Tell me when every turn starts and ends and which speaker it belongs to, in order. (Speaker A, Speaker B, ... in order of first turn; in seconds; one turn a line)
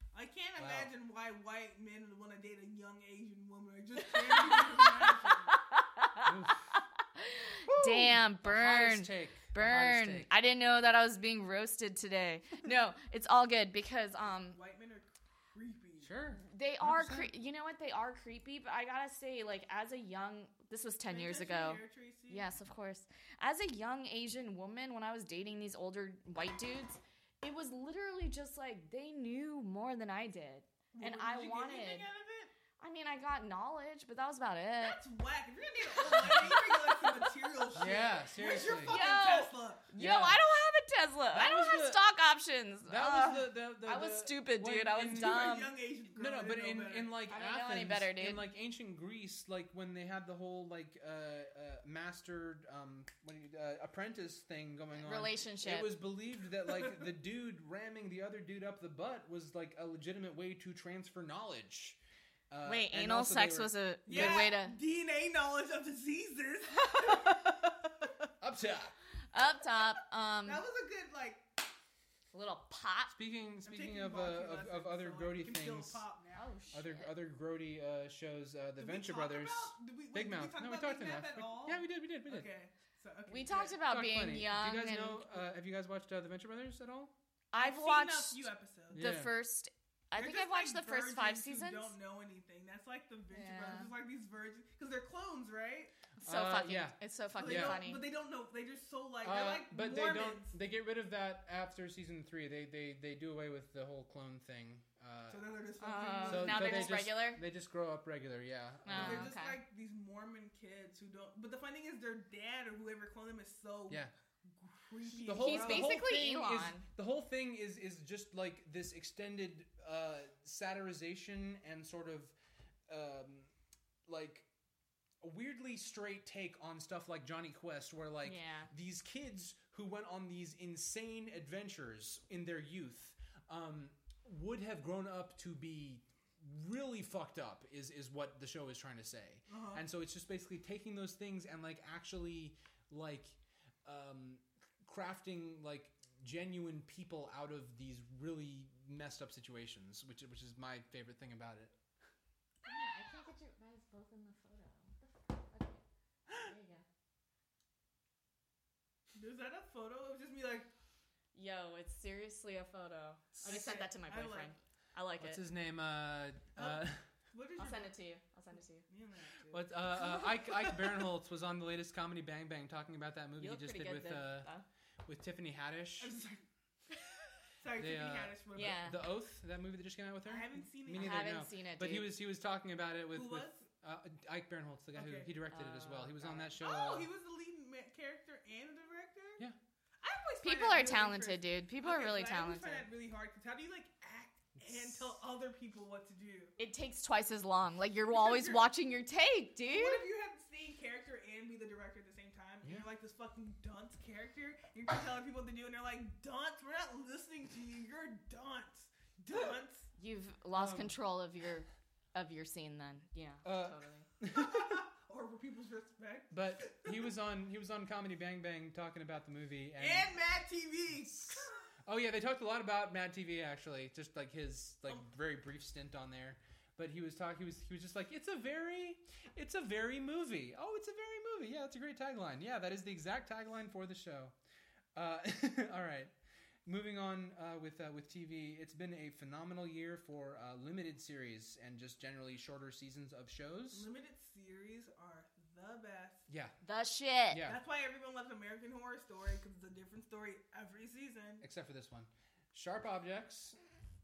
Speaker A: 0.1-5.5
Speaker B: 0.6-0.9
Speaker C: 4.0-14.6
Speaker B: 6.2-6.6
Speaker B: 7.6-10.3
Speaker A: 14.5-16.1
Speaker B: 16.0-17.3
Speaker C: 16.4-32.1
Speaker A: 21.1-22.4
Speaker A: 30.9-32.5
Speaker C: 32.8-35.0
Speaker A: 34.8-39.9
Speaker C: 35.8-37.3
Speaker B: 37.7-39.0
Speaker C: 38.8-45.7
Speaker B: 40.0-40.4
Speaker B: 41.3-42.0
Speaker B: 42.9-45.6
Speaker A: 45.0-47.1
Speaker B: 46.1-64.5
Speaker C: 47.3-48.4
Speaker C: 55.0-55.9
Speaker C: 62.6-64.8
Speaker A: 64.1-68.1
Speaker C: 66.7-67.5
Speaker B: 68.4-69.0
Speaker C: 69.3-70.6
Speaker A: 70.4-71.5
Speaker C: 72.3-73.1
Speaker B: 73.1-76.0
Speaker A: 73.7-76.5
Speaker C: 76.3-77.1
Speaker B: 76.7-82.5
Speaker A: 78.8-83.8
Speaker C: 83.3-85.3
Speaker B: 83.8-87.1
Speaker C: 87.5-91.9
Speaker A: 87.5-89.0
Speaker B: 88.9-89.3
Speaker A: 90.1-95.9
Speaker C: 93.3-93.9
Speaker C: 96.2-98.0
Speaker B: 96.2-97.8
Speaker A: 97.4-100.5
Speaker B: 99.2-105.4
Speaker A: 105.3-106.9
Speaker C: 105.8-107.4
Speaker B: 106.2-109.3
Speaker C: 108.8-109.6
Speaker A: 108.9-116.0
Speaker B: 115.2-122.3
Speaker C: 115.3-116.8
Speaker B: 122.9-123.5
Speaker B: 124.0-124.5
Speaker B: 125.2-151.7
Speaker C: 128.2-128.7
Speaker A: 139.5-139.8
Speaker C: 152.6-156.8
Speaker A: 159.1-160.7
Speaker C: 161.3-165.4
Speaker A: 163.4-164.5
Speaker B: 165.2-167.0
Speaker A: 166.6-167.9
Speaker C: 167.6-168.8
Speaker A: 168.9-170.9
Speaker B: 169.5-174.5
Speaker C: 173.4-174.7
Speaker B: 175.0-176.1
Speaker A: 176.0-176.4
Speaker A: 177.6-178.8
Speaker B: 177.8-187.1
Speaker C: 178.5-179.0
Speaker A: 180.2-181.4
Speaker C: 180.9-182.1
Speaker A: 183.1-183.7
Speaker A: 184.9-185.3
Speaker C: 185.5-186.5
Speaker A: 186.6-189.4
Speaker A: 190.0-196.5
Speaker C: 190.4-192.9
Speaker B: 194.6-195.0
Speaker C: 196.6-200.0
Speaker A: 198.1-198.7
Speaker A: 199.7-209.9
Speaker C: 210.0-214.1
Speaker B: 210.5-210.9
Speaker B: 213.4-214.8
Speaker A: 214.3-217.1
Speaker B: 216.3-220.1
Speaker A: 219.8-221.5
Speaker B: 221.0-234.3
Speaker B: 234.9-236.1
Speaker B: 236.7-243.9
Speaker A: 243.7-246.2
Speaker B: 246.3-246.6
Speaker C: 246.6-247.4
Speaker B: 247.3-247.6
Speaker A: 247.4-251.4
Speaker B: 251.4-253.6